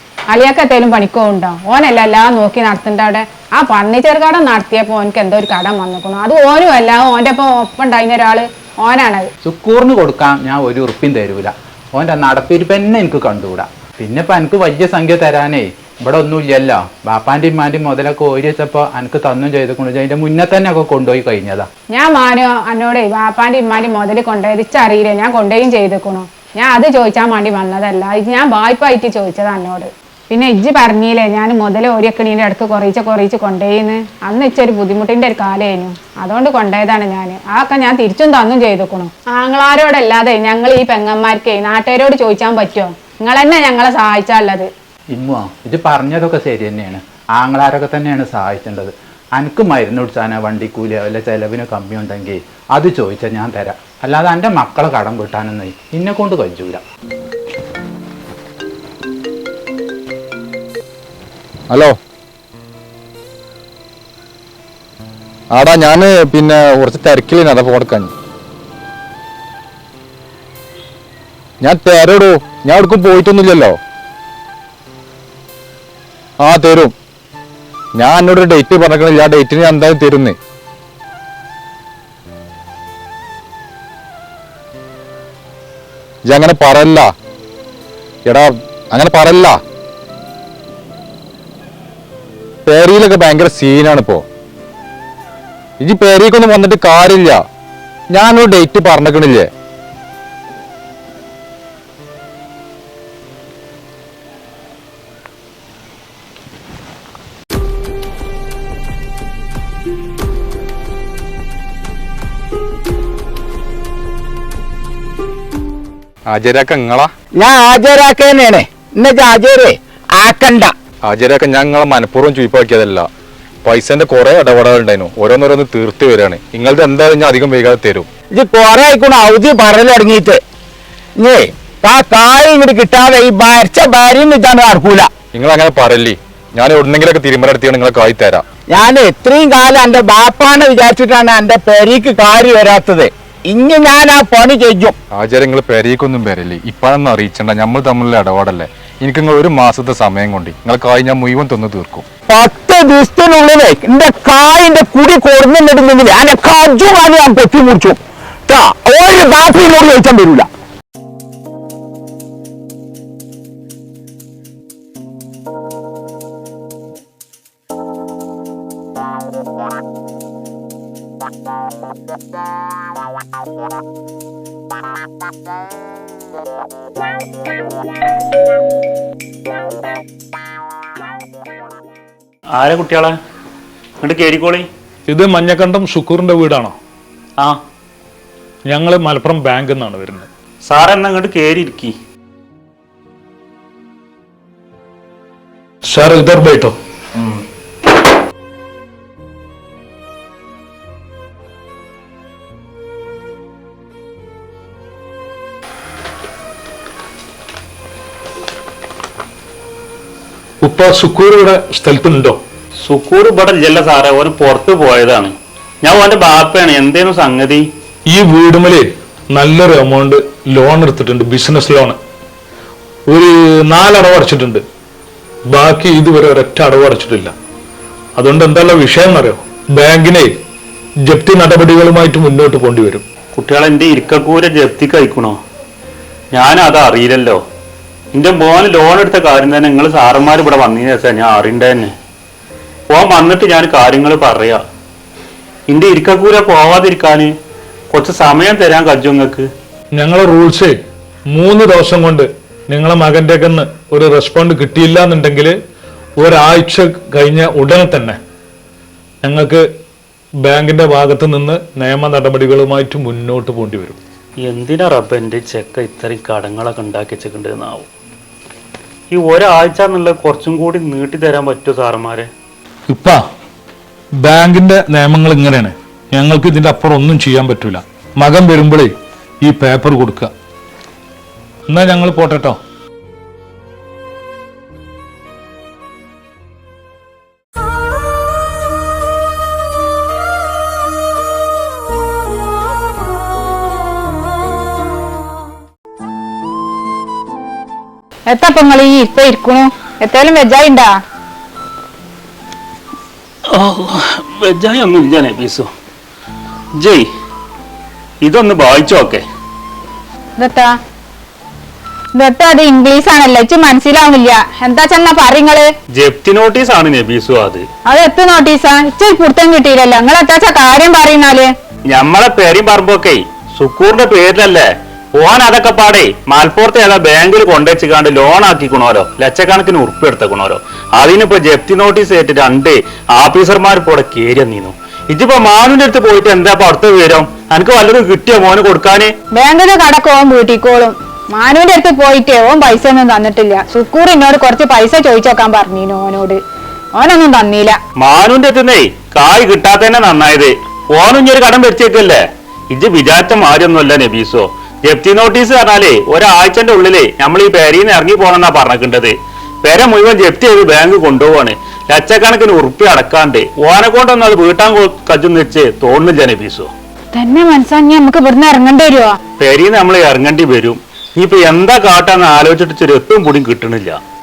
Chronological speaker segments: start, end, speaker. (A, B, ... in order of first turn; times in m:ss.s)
0:00.3-0:09.3 A
0:09.4-0:21.7 B
0:21.9-0:44.7 A
0:45.1-0:56.8 B
1:01.7-1:02.0 C
1:05.5-1:08.1 C
1:11.6-1:13.8 C
1:16.4-1:16.9 C
1:17.9-1:20.4 C
1:26.2-1:27.1 C
1:28.2-1:29.6 C
1:32.6-1:34.2 C
1:35.8-1:37.4 C
1:38.1-1:39.5 C
1:56.3-1:57.1 C
1:57.4-2:00.7 D
2:01.0-2:03.1 C
2:03.6-2:08.1 C
2:08.3-2:10.4 D
2:11.2-2:15.1 D
2:15.3-2:18.4 C
2:18.7-2:24.9 D
2:25.1-2:32.0 C
2:32.3-2:40.5 D
3:02.5-3:03.2 E
3:04.0-3:04.7 E
3:05.1-3:06.7 F
3:08.7-3:10.3 F
3:10.7-3:11.9 E
3:15.8-3:16.7 F
3:30.6-3:32.4 F
3:32.8-3:35.3 E
3:35.8-3:37.6 E
3:38.1-3:42.0 F
3:43.1-3:44.6 F
3:45.5-3:47.3 F
3:48.2-3:50.3 F
3:51.1-3:53.0 F
3:53.3-3:55.4 E
3:56.3-3:57.4 E
3:58.1-4:01.9 E
4:02.9-4:04.6 E
4:05.7-4:07.3 E
4:07.9-4:09.5 E
4:09.9-4:10.8 F
4:11.3-4:15.6 F
4:16.2-4:18.2 F
4:19.2-4:19.6 F
4:20.4-4:24.0 F
4:24.4-4:27.9 E
4:29.1-4:32.3 E
4:32.9-4:33.2 F
4:34.2-4:40.3 F
4:41.7-4:42.6 F
4:58.3-5:00.9 A
5:03.5-5:05.7 E
5:06.8-5:07.0 E
5:08.2-5:09.2 E
5:10.4-5:10.7 A
5:12.2-5:15.7 A
5:16.0-5:17.6 E
5:17.9-5:21.5 A
5:21.9-5:24.6 E
5:25.2-5:39.1 E
5:39.3-5:46.4 A
5:46.9-5:47.8 A
5:48.0-5:59.1 E
5:59.6-6:06.7 E
6:07.1-6:09.2 A
6:09.4-6:14.0 E